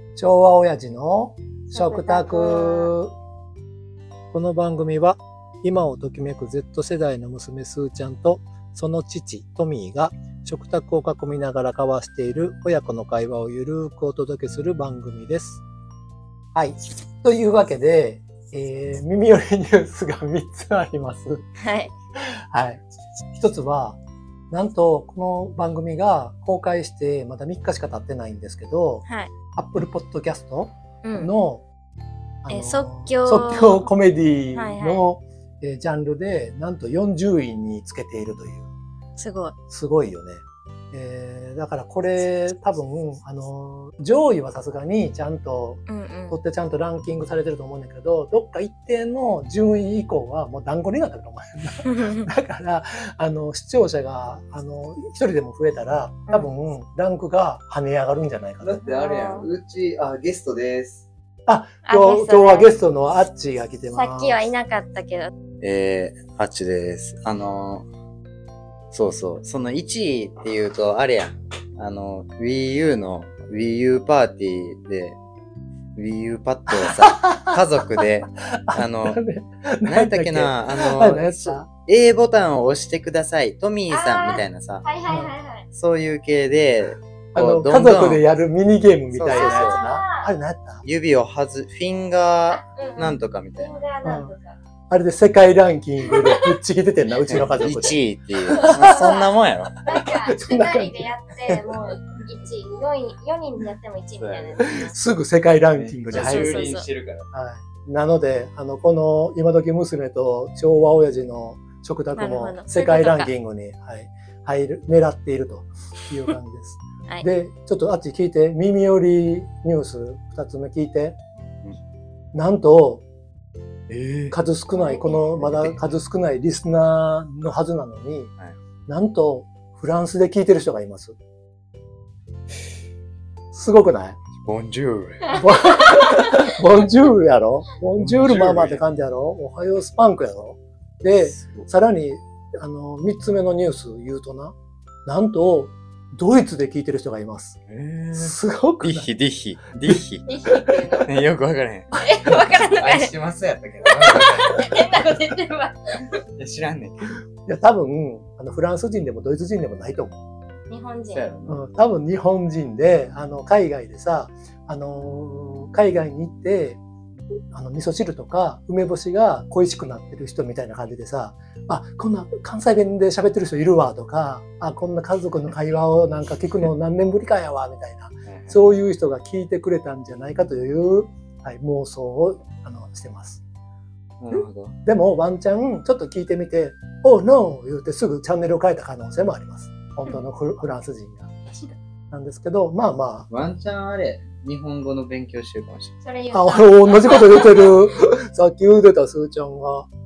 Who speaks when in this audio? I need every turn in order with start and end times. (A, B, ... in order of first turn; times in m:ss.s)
0:00.2-0:03.1 A
0:01.7-0:02.9 B
0:04.3-0:15.6 A
0:16.6-0:21.4 A
0:21.6-0:21.9 B
0:22.2-0:22.8 A
0:23.3-0:24.0 A
0:24.5-0:31.6 A
0:31.0-0:31.3 B
0:32.4-0:38.7 A
0:32.5-0:33.9 B
0:34.5-0:35.1 B
0:39.2-0:39.6 B
0:39.7-0:58.8 A
0:45.9-0:46.4 B
0:51.8-0:52.3 B
0:58.6-1:01.1 C
0:58.8-0:59.5 B
1:01.5-1:04.4 A
1:01.9-1:02.7 B
1:04.0-1:05.3 B
1:05.6-1:07.9 C
1:08.9-1:15.2 C
1:16.0-1:19.2 C
1:16.7-1:18.1 A
1:18.6-1:21.7 A
1:19.9-1:24.9 C
1:23.9-1:25.7 B
1:25.1-1:25.3 A
1:25.7-1:28.2 C
1:27.4-1:30.8 A
1:29.1-1:29.8 C
1:29.3-1:30.3 B
1:30.8-1:33.8 C
1:32.5-1:34.6 B
1:34.0-1:34.3 A
1:34.9-1:39.2 A
1:36.1-1:36.4 B
1:37.3-1:39.8 C
1:38.5-1:45.0 B
1:39.9-1:41.8 A
1:44.2-1:44.8 C
1:44.8-1:46.6 A
1:45.8-1:47.3 C
1:46.1-1:46.9 B
1:47.3-2:01.2 A
1:52.2-1:53.3 B
2:02.3-2:03.0 A
2:03.9-2:04.4 C
2:04.3-2:08.3 A
2:04.8-2:05.4 B
2:05.4-2:05.9 C
2:08.9-2:11.2 A
2:13.5-2:14.2 A
2:14.4-2:15.3 C
2:15.3-2:16.3 B
2:15.3-2:24.5 A
2:18.0-2:18.8 C
2:21.1-2:21.7 C
2:25.0-2:27.6 A
2:27.7-2:30.4 C
2:28.2-2:29.1 A
2:30.3-2:31.1 B
2:31.0-2:35.1 C
2:31.9-2:33.1 B
2:33.8-2:36.1 B
2:36.4-2:37.1 C
2:37.5-2:40.2 A
2:40.7-2:41.2 B
2:41.1-2:41.7 C
2:41.5-2:46.8 A
2:47.5-3:03.4 A
2:58.3-2:58.8 C
3:04.2-3:04.8 C
3:04.3-3:13.3 A
3:13.3-3:16.0 C
3:16.0-3:17.7 B
3:16.3-3:19.9 A